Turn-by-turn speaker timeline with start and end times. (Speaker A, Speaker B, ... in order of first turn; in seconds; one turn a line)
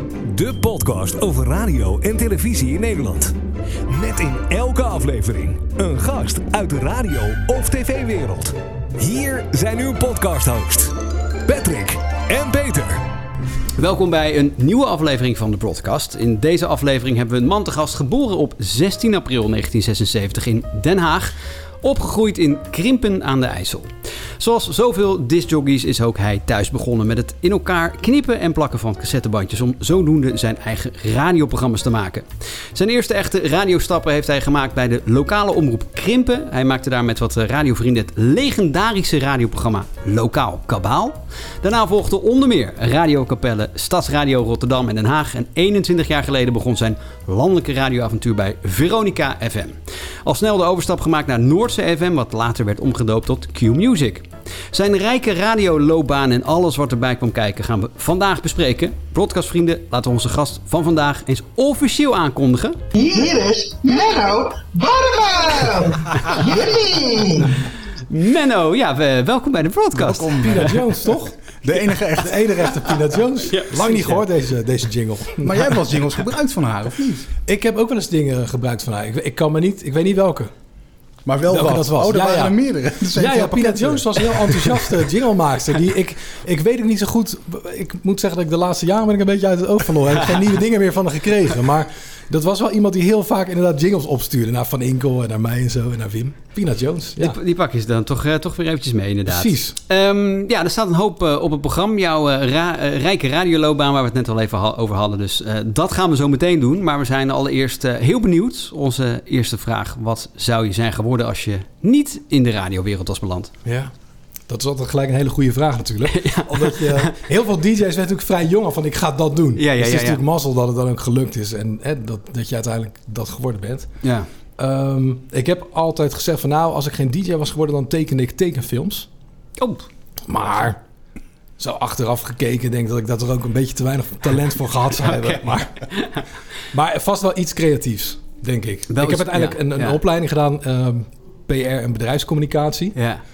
Speaker A: 0.2-3.3
Speaker A: 3.9-10.9
Speaker A: 11.4-13.0
Speaker B: 13.8-62.8
Speaker C: 63.0-64.4
Speaker C: 65.3-65.8
Speaker C: 66.4-67.2
Speaker B: 68.1-70.8
Speaker D: 70.0-71.3
Speaker E: 70.2-70.7
Speaker E: 71.6-72.9
Speaker D: 72.2-75.8
Speaker B: 73.5-74.2
Speaker E: 75.4-77.3
Speaker D: 77.5-80.5
Speaker E: 81.2-84.7
Speaker D: 81.5-82.5
Speaker D: 83.1-97.4
Speaker B: 97.2-113.5
Speaker D: 99.3-99.8
Speaker D: 113.6-113.9
Speaker D: 114.5-123.9
Speaker B: 116.0-117.1
Speaker B: 119.6-120.2
Speaker B: 124.0-124.3
Speaker D: 124.6-129.1
Speaker B: 129.6-129.8
Speaker D: 130.3-130.8
Speaker D: 131.6-135.8
Speaker B: 135.0-136.2
Speaker D: 136.7-142.9
Speaker B: 138.9-140.0
Speaker B: 142.9-143.2